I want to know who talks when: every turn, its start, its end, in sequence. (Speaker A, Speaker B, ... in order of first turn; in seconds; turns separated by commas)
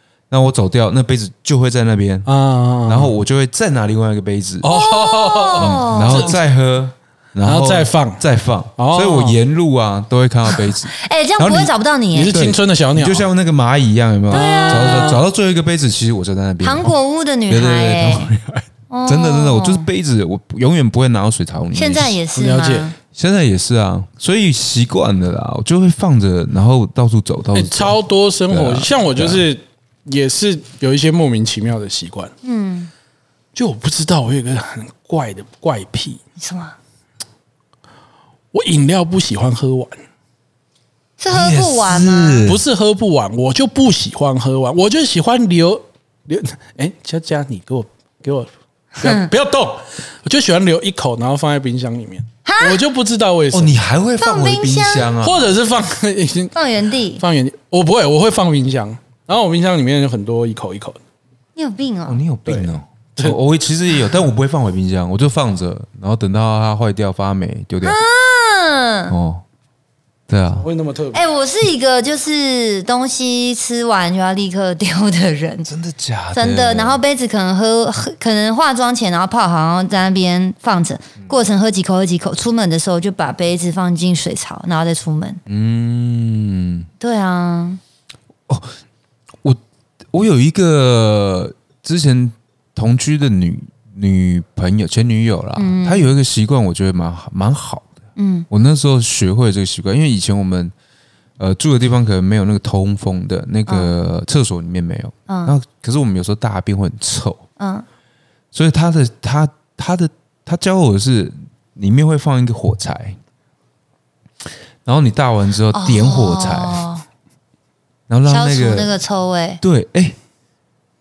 Speaker A: 0.3-2.3, Speaker B: 2.3-3.1, Speaker A: 2.9-4.8, Speaker B: 4.6-6.3, Speaker C: 4.7-6.4, Speaker A: 5.6-11.7, Speaker B: 7.4-8.2, Speaker B: 8.8-9.4, Speaker C: 10.5-12.4, Speaker B: 12.1-13.3, Speaker A: 12.3-16.9, Speaker C: 14.3-15.2, Speaker B: 14.3-15.2, Speaker C: 16.6-18.3, Speaker A: 17.5-22.2, Speaker C: 18.9-19.9, Speaker C: 21.8-23.0, Speaker B: 22.3-22.9, Speaker A: 23.1-28.0, Speaker B: 27.5-32.3, Speaker A: 28.5-29.4, Speaker C: 32.4-32.9, Speaker B: 33.5-36.2, Speaker C: 36.4-36.8, Speaker B: 38.5-40.0, Speaker C: 41.2-42.5, Speaker A: 41.3-42.6, Speaker B: 42.4-53.8, Speaker C: 49.0-49.3, Speaker C: 52.5-52.8, Speaker A: 53.5-55.5, Speaker C: 54.2-55.1, Speaker B: 55.2-56.5, Speaker C: 56.5-57.2, Speaker B: 57.2-61.0, Speaker C: 61.6-62.2, Speaker A: 62.1-68.0, Speaker B: 62.5-63.4, Speaker C: 67.8-69.2, Speaker A: 69.1-69.4, Speaker A: 70.3-70.7, Speaker B: 70.5-71.2, Speaker C: 71.1-75.7, Speaker A: 75.7-77.0, Speaker C: 76.3-85.4, Speaker A: 85.5-86.9, Speaker C: 87.0-87.8, Speaker A: 88.5-88.7, Speaker A: 90.1-97.9, Speaker C: 95.6-96.1, Speaker C: 98.2-98.5, Speaker A: 98.5-100.7, Speaker A: 101.4-107.4, Speaker C: 103.7-104.0, Speaker C: 105.3-105.5, Speaker C: 107.6-107.8, Speaker A: 108.5-113.2, Speaker A: 114.8-116.8, Speaker C: 115.7-117.0, Speaker A: 118.1-118.9, Speaker C: 118.3-119.6, Speaker A: 119.6-120.2